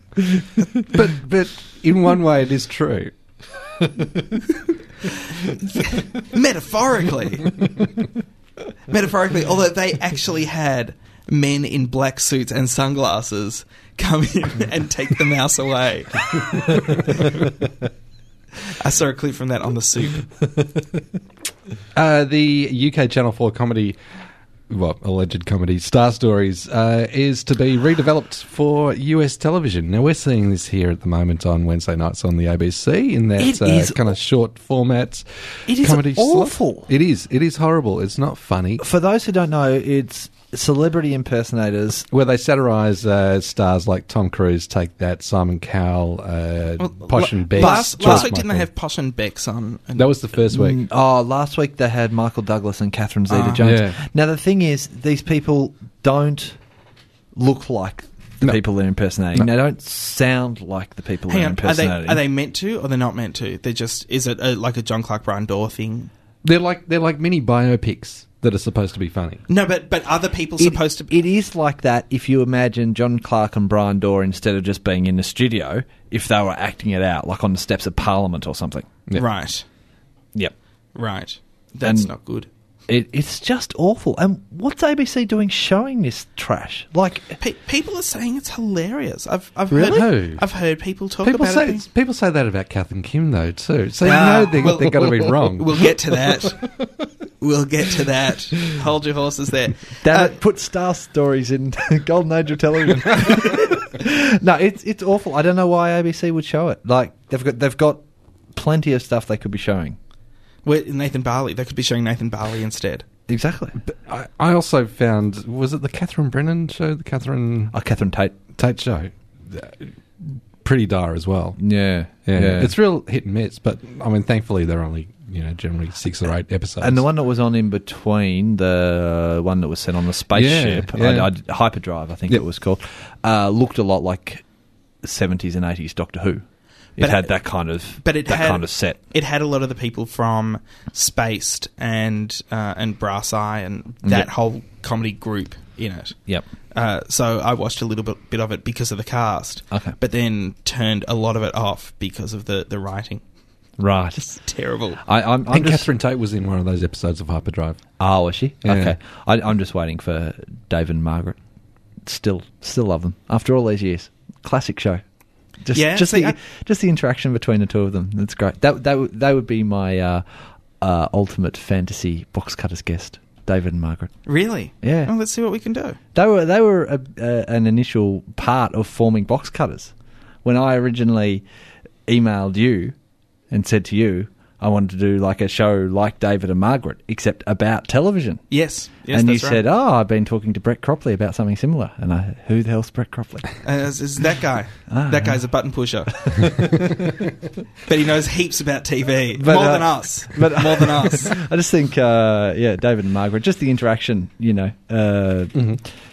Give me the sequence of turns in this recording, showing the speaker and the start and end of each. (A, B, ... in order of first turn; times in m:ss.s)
0:00.8-0:03.1 A
0:05.8-0:07.6 B
0:08.9-0:17.3 B
0:18.7-0:20.2 B
0:21.9-0:24.0 A
0:24.7-0:38.8 A
0:33.4-0:34.1 C
0:35.7-0:36.9 C
0:38.8-0:42.0 C
0:42.1-0:48.7 A
0:46.8-0:50.1 B
0:47.6-0:48.3 C
0:50.0-0:50.8 A
0:50.5-0:56.6 C
0:53.3-0:53.6 B
0:53.6-0:54.0 A
0:57.3-1:02.2 C
1:01.3-1:06.1 B
1:06.4-1:09.4 A
1:09.5-1:11.2 B
1:10.6-1:18.9 C
1:19.1-1:19.6 B
1:20.9-1:22.5 B
1:21.8-1:22.1 C
1:22.9-1:27.4 C
1:27.4-1:31.8 B
1:29.7-1:30.5 A
1:31.2-1:35.8 A
1:34.0-1:36.6 B
1:37.4-1:40.4 B
1:40.0-1:50.0 C
1:50.6-1:53.0 B
1:53.3-1:53.8 C
1:53.8-1:57.7 A
1:57.7-1:58.4 C
1:58.5-2:07.0 A
2:01.6-2:02.8 C
2:06.8-2:14.4 C
2:10.3-2:11.3 A
2:15.0-2:16.4 C
2:17.0-2:19.0 C
2:17.0-2:26.2 B
2:24.0-2:24.3 C
2:26.7-2:33.2 B
2:29.7-2:30.0 C
2:33.8-2:34.2 C
2:34.2-2:35.0 B
2:35.0-2:35.9 C
2:35.5-2:37.8 A
2:38.0-2:41.4 C
2:38.6-2:38.9 A
2:42.0-2:45.0 C
2:45.6-2:50.2 C
2:45.7-2:46.4 B
2:50.8-2:54.2 C
2:54.2-2:56.0 B
2:54.8-2:55.1 C
2:56.1-2:59.9 C
3:00.4-3:01.4 C
3:02.0-3:03.0 C
3:03.5-3:08.4 C
3:08.5-3:09.6 B
3:09.1-3:13.5 C
3:13.6-3:16.7 B
3:14.9-3:15.4 C
3:16.3-3:16.7 C
3:17.8-3:21.4 B
3:19.3-3:25.8 C
3:25.5-3:25.8 A